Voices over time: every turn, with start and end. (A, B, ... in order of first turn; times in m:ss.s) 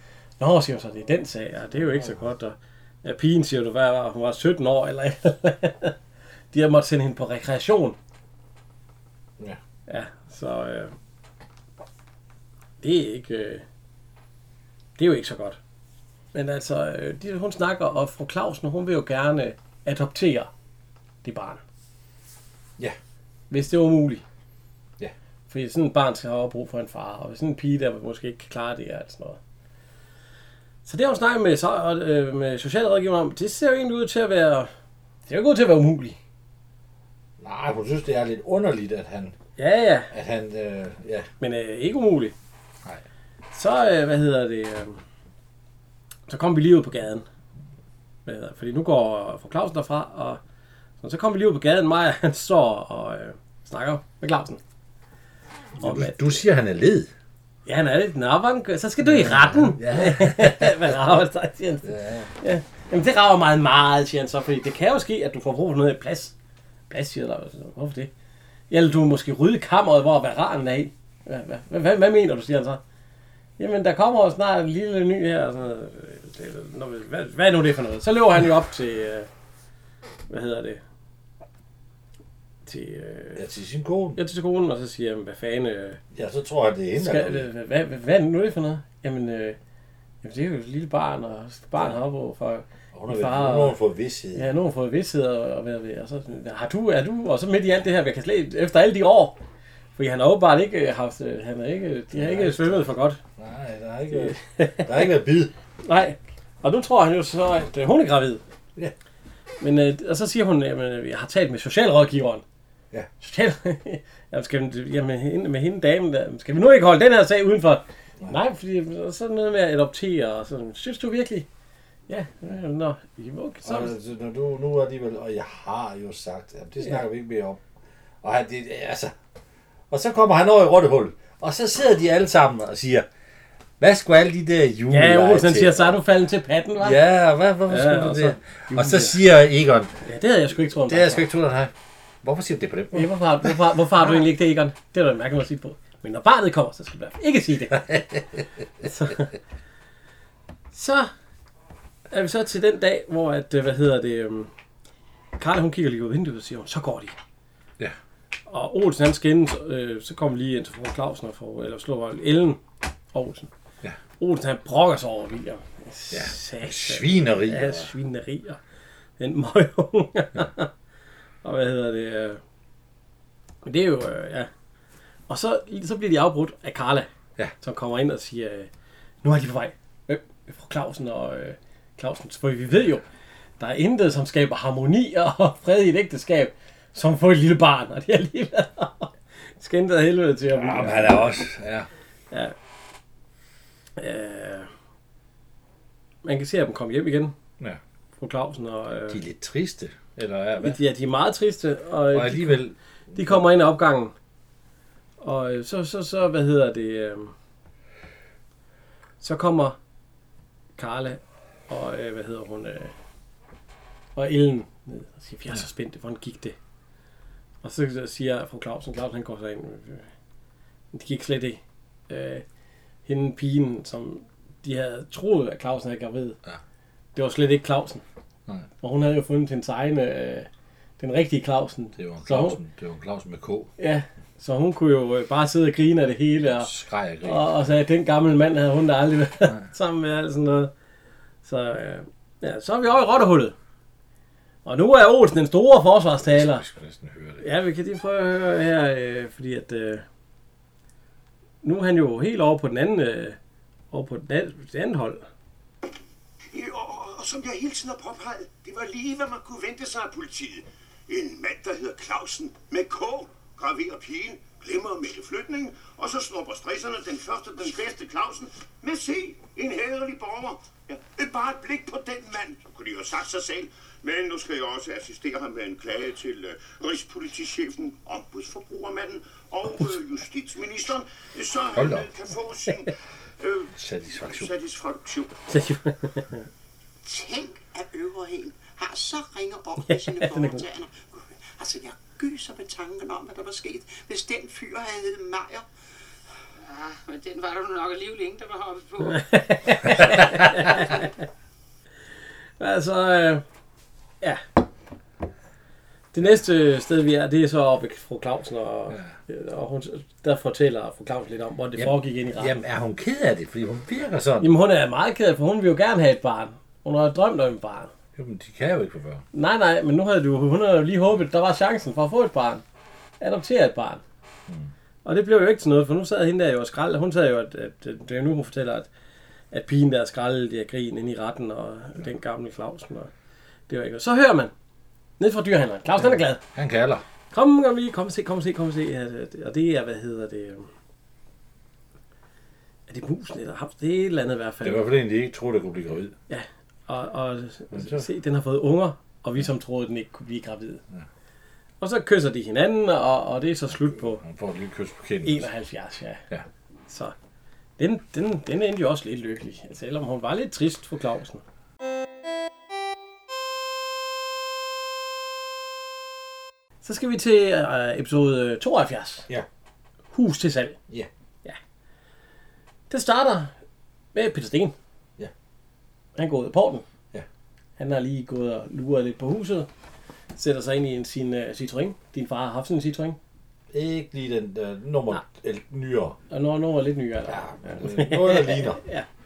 0:00.4-0:06.0 A
0:01.7-0:02.2 B
0:06.5-0:08.0 A
0:09.9-0:10.9 A
0:12.8-0:13.6 A
0:15.0-0:15.6 A
0:16.3-0:20.5 A
0:21.2-0:21.6 A
0:23.5-0:24.2 A
0:25.5-0:29.4 A
0:30.8-0:34.7 A
0:35.3-0:36.2 A
0:37.4-0:39.4 B
0:39.6-0:40.1 A
0:40.1-0:41.3 B
0:41.4-0:42.3 A
0:43.5-0:45.0 A
0:46.3-0:47.2 A
0:48.2-0:50.4 A
0:51.0-0:54.6 A
0:55.8-0:57.1 B
0:55.8-0:56.4 A
0:57.6-1:06.3 A
0:59.0-1:01.2 B
1:01.8-1:02.3 B
1:06.9-1:08.1 A
1:08.7-1:12.8 A
1:13.6-1:19.3 A
1:20.3-1:20.8 A
1:22.6-1:23.4 A
1:23.4-1:24.2 B
1:24.2-1:26.0 A
1:26.1-1:27.5 B
1:27.0-1:29.6 A
1:30.2-1:33.8 A
1:32.9-1:34.5 B
1:34.3-1:39.4 A
1:40.0-1:43.2 A
1:42.1-1:45.5 B
1:44.1-1:45.1 A
1:45.8-1:48.4 A
1:49.6-1:52.4 A
1:53.2-2:01.5 A
2:02.1-2:03.9 A
2:03.6-2:07.6 B
2:08.2-2:09.1 B
2:09.9-2:13.1 B
2:13.8-2:16.0 B
2:14.9-2:17.0 A
2:16.8-2:20.0 B
2:17.7-2:19.2 A
2:20.0-2:21.3 A
2:20.8-2:23.6 B
2:22.9-2:28.1 A
2:27.8-2:28.4 B
2:28.8-2:29.3 A
2:30.7-2:31.1 A
2:32.1-2:34.5 A
2:35.4-2:37.1 A
2:38.5-2:42.6 A
2:43.1-2:43.5 A
2:44.2-2:48.6 A
2:46.1-2:47.9 B
2:49.2-2:50.7 A
2:51.4-2:52.4 A
2:53.6-2:54.5 A
2:55.3-2:57.1 A
2:57.6-2:58.7 A
2:59.2-3:03.0 A
3:03.6-3:11.4 A
3:10.5-3:11.9 B
3:14.0-3:14.7 A
3:16.2-3:17.3 A
3:18.2-3:19.2 A
3:19.1-3:20.8 B
3:20.6-3:22.6 A
3:22.1-3:23.4 B
3:23.1-3:24.1 A
3:25.2-3:27.3 A
3:29.2-3:29.8 A
3:30.8-3:32.9 A
3:34.2-3:36.6 A
3:37.6-3:40.1 A
3:40.9-3:42.4 A
3:43.0-3:46.4 A
3:47.1-3:48.0 A
3:48.8-3:50.5 A
3:51.0-3:52.6 A
3:52.0-3:53.7 B
3:53.8-3:56.7 A
3:56.4-3:57.5 B
3:57.2-4:00.7 A
4:01.4-4:03.5 A
4:04.6-4:06.6 A
4:06.2-4:07.4 B
4:07.4-4:10.0 A
4:11.6-4:13.4 A
4:13.9-4:15.2 A
4:16.5-4:45.5 C
4:41.7-4:42.1 B
4:43.7-4:44.5 B
4:45.5-4:46.4 A
4:47.0-4:55.6 D
4:49.8-4:50.6 A
4:56.6-5:01.0 E
4:59.0-5:01.2 A
5:00.0-5:00.7 B
5:02.6-5:03.4 A
5:06.1-5:12.6 A
5:11.8-5:14.5 B
5:14.4-5:17.9 A
5:18.2-5:19.2 B
5:19.3-5:22.6 A
5:23.2-5:24.0 A
5:25.0-5:28.9 A
5:29.5-5:33.1 A
5:33.7-5:34.5 A
5:35.2-5:36.4 A
5:36.0-5:37.0 B
5:37.3-5:40.7 A
5:42.9-5:44.9 A
5:44.6-5:46.2 B
5:46.3-5:50.8 A
5:47.7-5:48.1 B
5:51.8-5:54.2 A
5:53.8-5:55.5 B
5:55.2-5:56.2 A
5:56.9-5:57.1 A
5:57.8-6:01.4 A
6:06.8-6:09.3 A
6:10.1-6:10.8 A
6:12.9-6:13.5 A
6:14.1-6:14.7 A
6:16.2-6:16.8 A
6:17.8-6:19.7 A
6:20.4-6:23.2 A
6:23.7-6:26.2 B
6:26.3-6:29.0 A
6:27.3-6:28.8 B